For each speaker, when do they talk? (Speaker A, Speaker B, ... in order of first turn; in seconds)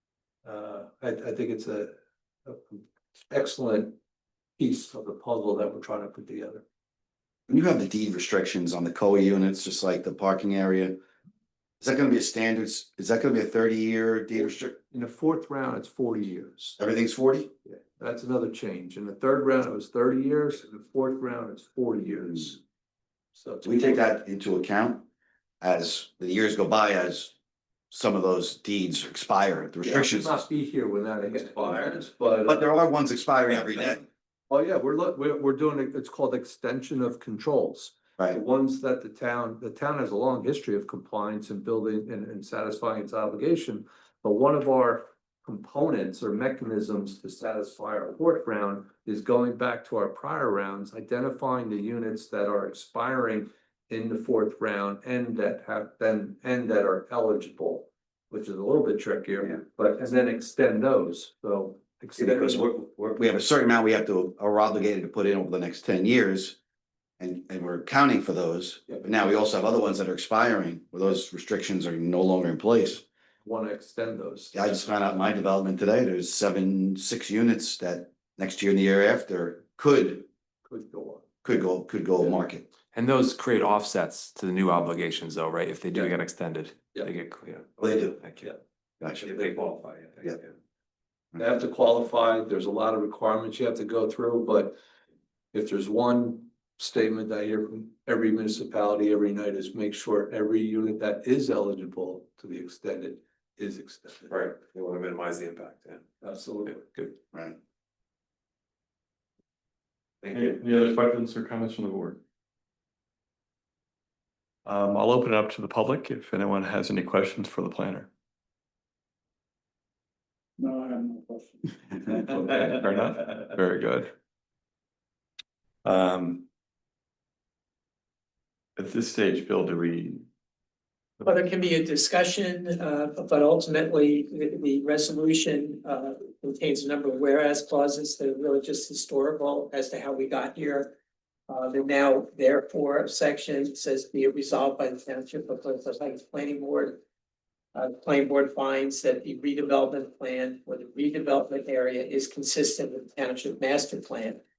Speaker A: 0.4-4.0, 4.6-6.6, 14.9-16.8, 17.6-22.6, 23.3-24.0, 29.8-32.7, 34.5-62.7, 73.4-74.7, 80.7-81.2, 89.3-90.3, 91.4-94.8, 95.5-104.4, 106.2-107.2
Speaker B: 7.5-11.0, 11.8-14.8, 16.8-17.5, 23.6-25.0, 25.6-27.4, 27.9-30.4, 32.4-34.0, 62.2-66.6, 67.2-73.0, 74.5-80.3, 81.4-82.7, 87.8-88.2, 89.0-89.3
Speaker C: 82.9-88.5, 89.2-90.5, 104.3-106.0
Speaker D: 110.3-112.2, 114.7-118.1, 122.2-124.1, 125.8-126.5, 128.8-130.2
Speaker E: 131.2-140.9, 141.5-147.0, 147.7-154.4